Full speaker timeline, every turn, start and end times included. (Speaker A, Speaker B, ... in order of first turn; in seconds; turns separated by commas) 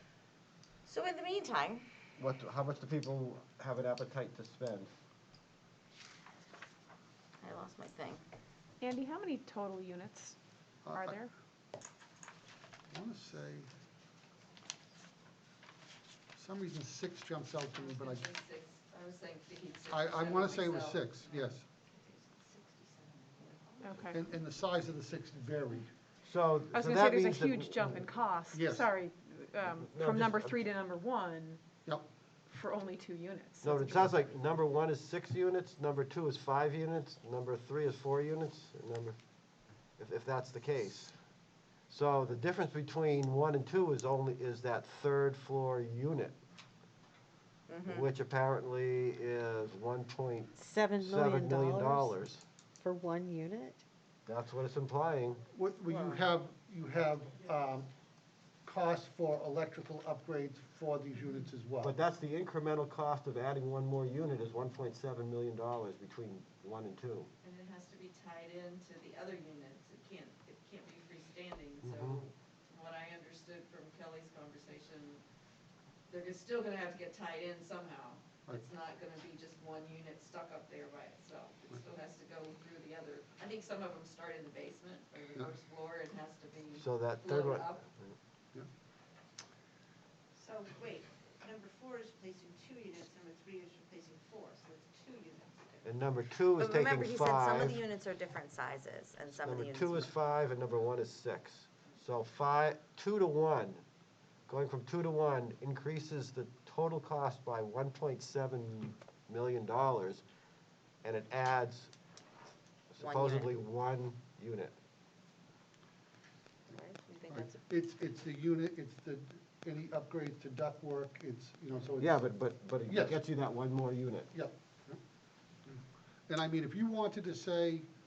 Speaker A: 0.9-1.8, Speaker B: 2.2-4.9, Speaker A: 7.4-8.2, Speaker C: 8.8-10.4, Speaker D: 10.8-11.2, Speaker C: 10.9-11.3, Speaker D: 12.9-13.7, Speaker D: 16.4-18.3, Speaker E: 17.8-21.5, Speaker D: 19.9-21.6, Speaker C: 23.8-24.2, Speaker D: 24.1-25.9, Speaker B: 26.2-28.0, Speaker C: 26.7-31.6, Speaker D: 28.5-28.9, Speaker B: 29.8-30.5, Speaker C: 32.5-34.1, Speaker B: 33.6-39.2, Speaker B: 40.0-41.2, Speaker B: 41.9-46.4, Speaker A: 47.7-48.0, Speaker B: 47.8-52.4, Speaker F: 50.6-52.1, Speaker F: 52.8-53.8, Speaker B: 54.3-55.4, Speaker D: 55.5-57.9, Speaker D: 58.6-62.0, Speaker B: 61.8-67.3, Speaker E: 67.4-75.2, Speaker B: 71.8-72.2, Speaker E: 76.1-87.8, Speaker B: 86.8-88.2, Speaker G: 90.4-95.8, Speaker B: 95.8-97.8, Speaker A: 96.6-100.1, Speaker B: 99.3-103.8, Speaker B: 104.5-110.2, Speaker B: 111.0-111.9, Speaker B: 113.0-114.7, Speaker A: 113.0-113.5, Speaker A: 116.7-117.5, Speaker D: 117.3-122.3, Speaker B: 122.0-124.3, Speaker D: 122.9-123.2, Speaker D: 124.3-125.0, Speaker D: 125.7-127.9